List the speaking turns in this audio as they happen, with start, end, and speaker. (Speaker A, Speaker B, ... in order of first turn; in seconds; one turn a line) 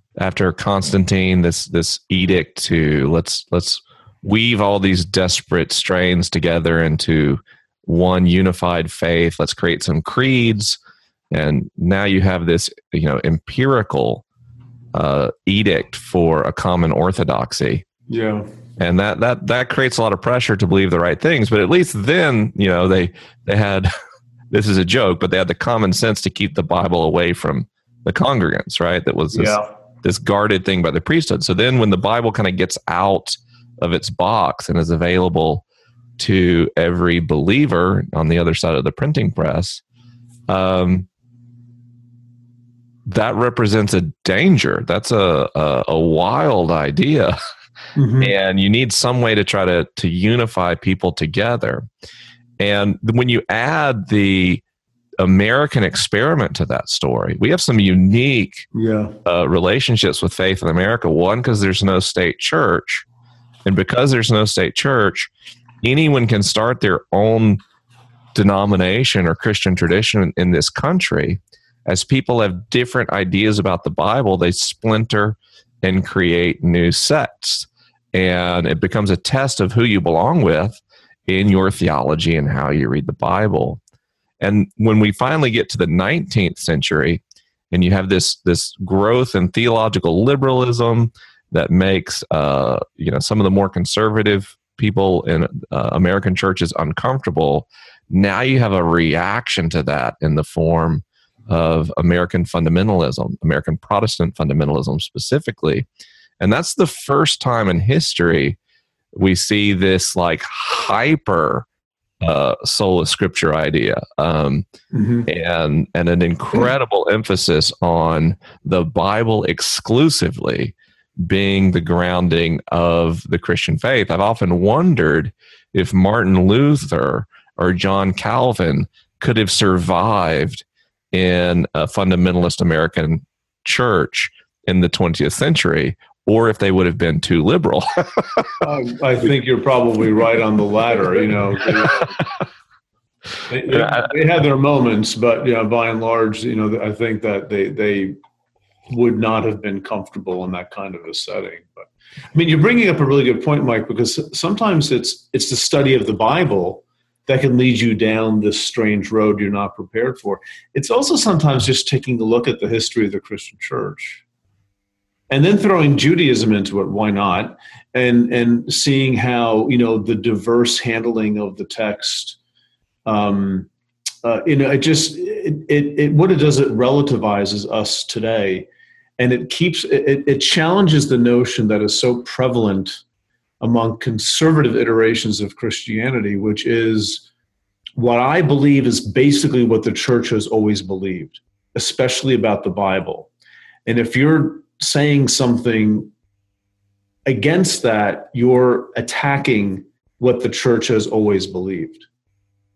Speaker A: 0.2-10.8
Speaker A: 11.3-14.2
Speaker A: 14.9-17.9
Speaker B: 18.1-18.5
Speaker A: 18.8-23.9
Speaker A: 24.5-35.6
Speaker B: 29.3-29.7
Speaker A: 36.2-39.8
Speaker A: 40.5-41.1
Speaker A: 43.1-47.4
Speaker B: 48.0-48.3
Speaker A: 48.2-51.9
Speaker A: 52.6-54.6
Speaker A: 55.2-58.7
Speaker B: 58.7-59.1
Speaker A: 59.2-63.1
Speaker A: 63.6-65.3
Speaker A: 65.8-67.6
Speaker A: 68.3-83.8
Speaker A: 84.4-87.2
Speaker A: 87.7-105.9
Speaker A: 106.4-108.6
Speaker A: 109.1-111.7
Speaker A: 112.2-114.7
Speaker B: 114.9-115.3
Speaker A: 115.3-138.5
Speaker B: 138.6-142.2
Speaker A: 141.6-142.2
Speaker B: 143.5-148.2
Speaker A: 143.7-144.1
Speaker B: 148.9-164.2
Speaker B: 165.3-172.4
Speaker B: 173.1-173.7
Speaker B: 174.2-178.7
Speaker B: 179.2-183.0
Speaker B: 183.6-187.2
Speaker B: 188.0-193.3
Speaker B: 193.9-196.1
Speaker B: 197.3-202.0